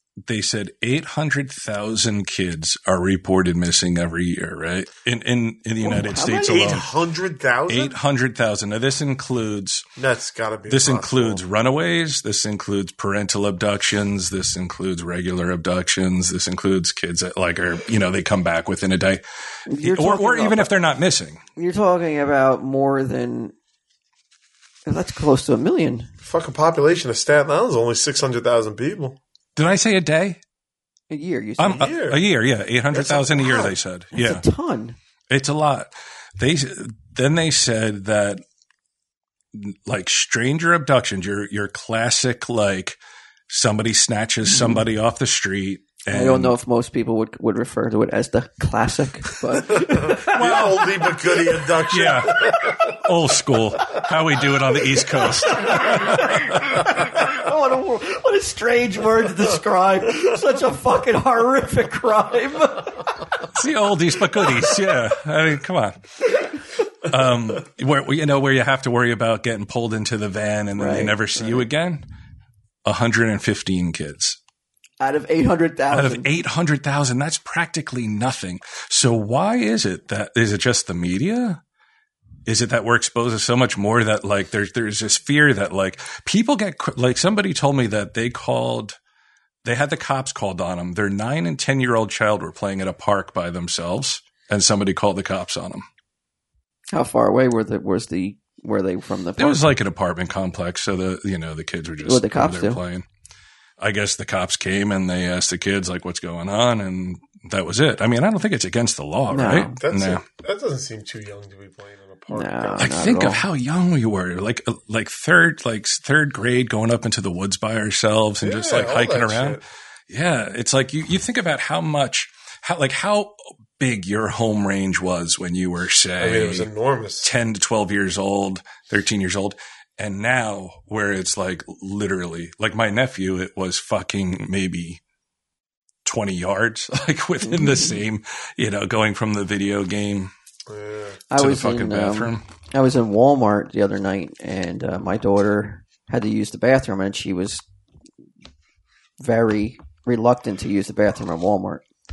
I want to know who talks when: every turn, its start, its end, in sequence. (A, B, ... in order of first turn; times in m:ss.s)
0:00.3-0:06.9 A
0:05.8-0:06.8 B
0:06.4-0:07.9 C
0:07.7-0:09.9 A
0:10.0-0:11.4 C
0:10.7-0:19.2 A
0:19.7-0:20.7 B
0:19.8-0:21.4 A
0:21.6-0:23.5 B
0:24.8-0:26.1 B
0:26.2-0:29.2 C
0:29.6-0:30.4 A
0:31.1-0:31.9 B
0:31.6-0:34.4 A
0:31.7-0:32.2 C
0:32.9-0:33.7 C
0:34.1-0:35.0 B
0:35.3-0:38.4 A
0:39.5-0:43.0 A
0:43.5-0:46.5 A
0:44.5-0:44.8 B
0:46.1-0:50.3 B
0:49.8-0:53.0 C
0:50.0-0:51.1 A
0:51.8-0:56.4 A
0:55.5-1:03.1 B
1:03.5-1:06.3 A
1:07.0-1:12.0 A
1:10.8-1:11.7 B
1:12.8-1:14.4 A
1:15.0-1:16.3 B
1:15.9-1:21.6 A
1:22.4-1:29.0 A
1:29.6-1:35.8 A
1:36.9-1:39.7 B
1:39.4-1:43.0 A
1:42.0-1:42.8 B
1:43.8-1:50.2 A
1:49.3-1:49.8 B
1:49.8-1:52.9 C
1:52.3-1:53.4 B
1:52.8-2:06.7 A
1:58.4-1:59.6 C
2:06.2-2:07.3 C
2:07.2-2:15.0 A
2:16.0-2:20.3 A
2:20.7-2:21.2 C
2:21.3-2:27.6 B
2:21.4-2:22.4 A
2:29.2-2:31.8 B